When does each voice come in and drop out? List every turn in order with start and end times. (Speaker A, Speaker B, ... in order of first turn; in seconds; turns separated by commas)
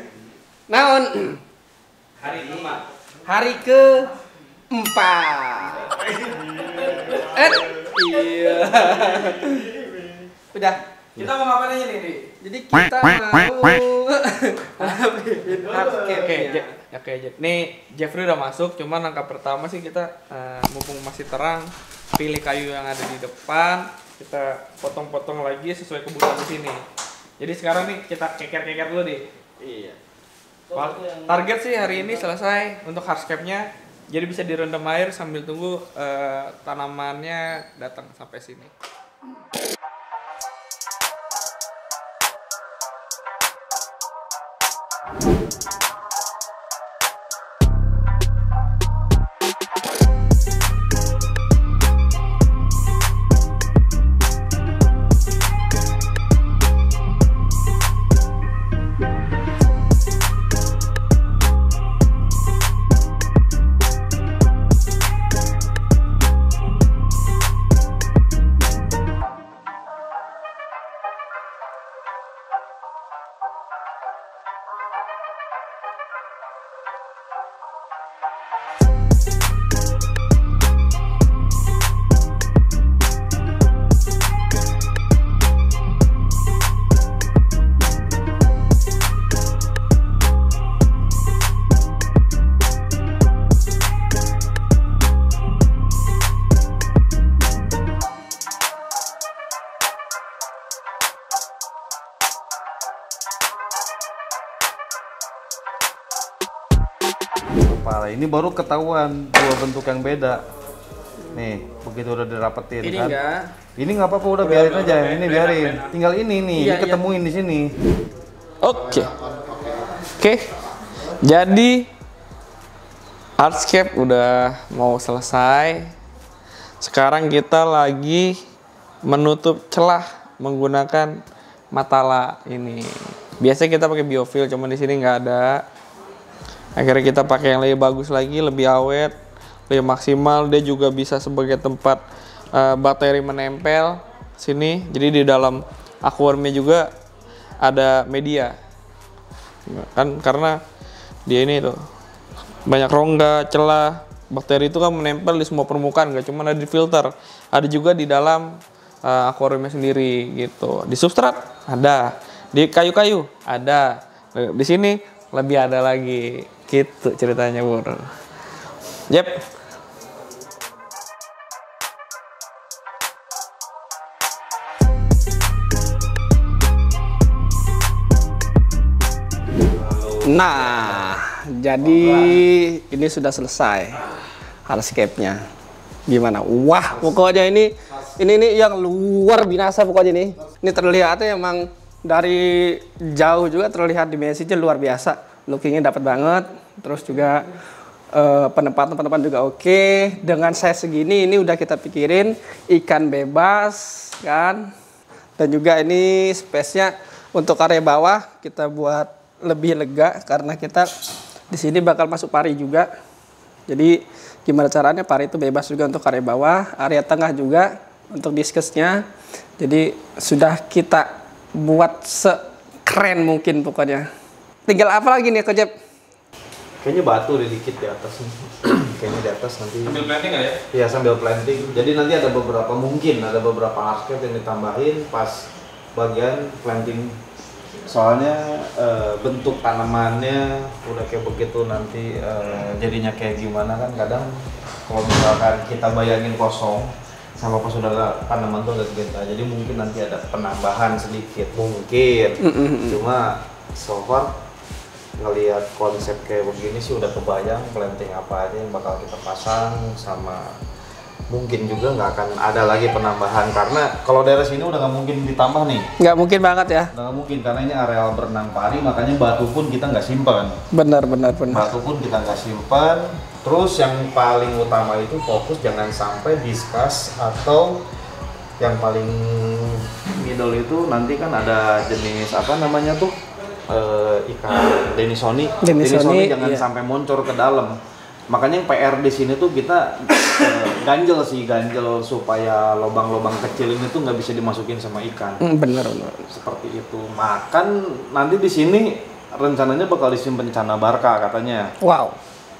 Speaker A: 0.7-1.4, Speaker B: 2.2-2.8, Speaker A: 3.2-4.1, Speaker A: 4.7-6.0, Speaker A: 6.7-9.8, Speaker B: 9.2-9.8, Speaker A: 10.5-10.8, Speaker B: 11.2-12.3, Speaker A: 12.3-16.7, Speaker B: 15.7-26.8, Speaker B: 27.4-29.3, Speaker C: 29.6-29.9, Speaker B: 30.7-38.7, Speaker C: 30.7-31.3, Speaker C: 107.6-110.4, Speaker C: 111.3-113.2, Speaker A: 112.8-113.5, Speaker C: 113.8-117.7, Speaker B: 114.4-115.9, Speaker A: 116.5-117.0, Speaker B: 118.6-120.5, Speaker B: 121.2-121.9, Speaker B: 123.4-125.9, Speaker B: 126.8-128.4, Speaker B: 129.0-135.6, Speaker B: 136.8-139.2, Speaker B: 139.7-142.0, Speaker B: 142.5-146.9, Speaker B: 147.6-148.6, Speaker B: 149.7-150.6, Speaker B: 151.2-151.8, Speaker B: 152.7-168.1, Speaker B: 169.1-169.4, Speaker C: 179.6-181.2, Speaker A: 180.2-184.0, Speaker C: 181.8-182.4, Speaker A: 184.7-185.4, Speaker A: 186.1-197.5, Speaker A: 198.1-204.7, Speaker A: 205.4-210.9, Speaker A: 211.5-212.9, Speaker A: 213.7-219.0, Speaker A: 219.6-224.1, Speaker A: 224.7-225.7, Speaker C: 226.8-230.0, Speaker B: 229.8-230.6, Speaker C: 230.7-237.1, Speaker C: 237.8-244.3, Speaker C: 244.8-254.3, Speaker A: 252.4-253.0, Speaker C: 255.2-260.5, Speaker C: 261.3-265.9, Speaker A: 266.0-266.9, Speaker C: 266.9-270.5, Speaker A: 270.7-271.7, Speaker C: 271.5-277.8, Speaker C: 278.6-283.1, Speaker C: 283.7-287.7, Speaker A: 285.6-286.6, Speaker C: 288.3-295.4, Speaker A: 295.4-296.2, Speaker C: 296.3-301.7, Speaker A: 301.8-302.2